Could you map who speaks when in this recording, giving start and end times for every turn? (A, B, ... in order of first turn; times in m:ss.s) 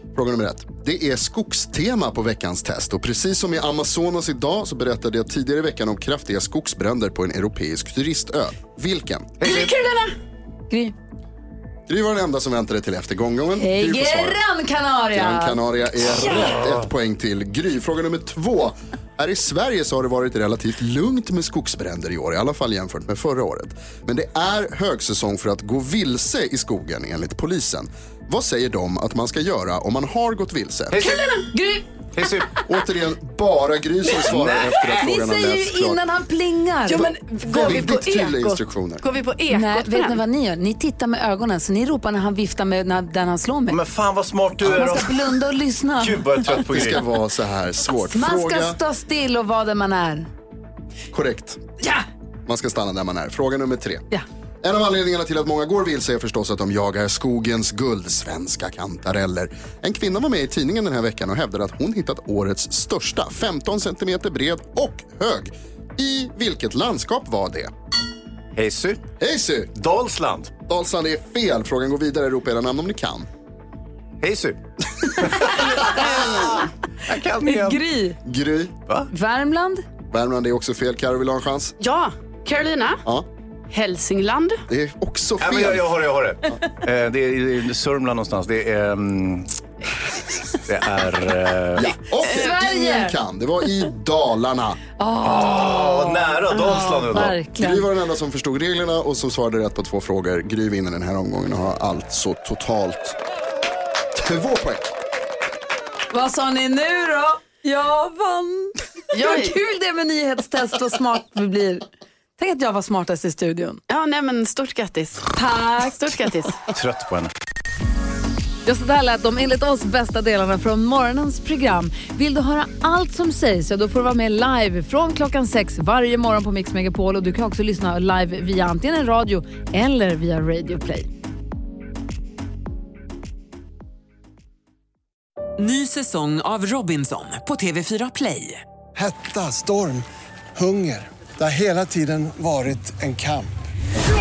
0:00.1-0:09.5 A
0:09.4-0:09.8 B
0:09.4-0:09.7 C
0:09.5-0:09.9 D
0:10.7-0:11.0 C
0:11.9-0:14.4 A
0:13.6-0:15.6 C
0:15.1-0:31.0 A
0:30.9-0:31.3 B
0:31.0-0:31.9 C
0:32.1-0:32.6 B
0:32.7-0:36.0 A
0:34.1-0:34.9 B
0:35.0-0:37.8 C
0:36.9-0:40.2 D
0:36.9-0:39.0 A
0:39.5-0:43.8 C
0:43.7-0:45.3 B
0:44.6-0:46.6 C
0:46.0-0:47.1 B
0:46.4-0:48.8 A
0:48.1-0:50.3 C
0:51.1-0:51.6 A
0:51.8-0:52.0 C
0:52.5-0:54.1 A
0:54.6-1:07.7 A
1:08.6-1:09.1 B
1:09.2-1:09.7 A
1:09.8-1:10.5 B
1:10.7-1:13.3 A
1:14.2-1:17.8 B
1:15.5-1:16.5 C
1:15.6-1:16.3 A
1:17.4-1:18.2 C
1:18.2-1:18.7 A
1:19.1-1:19.8 C
1:20.1-1:21.8 A
1:21.8-1:23.0 D
1:23.7-1:24.6 D
1:24.7-1:26.0 A
1:25.4-1:29.6 B
1:30.7-1:31.9 B
1:31.8-1:34.8 A
1:31.8-1:32.5 D
1:32.2-1:33.2 C
1:35.0-1:37.9 C
1:35.2-1:37.4 B
1:37.6-1:43.2 A
1:44.1-1:44.9 A
1:46.1-1:51.9 C
1:49.1-1:49.6 D
1:52.4-1:53.8 C
1:53.9-1:56.6 D
1:55.3-1:56.1 C
1:56.7-1:57.3 B
1:58.6-2:11.1 C
2:15.6-2:18.6 E
2:18.9-2:23.5 F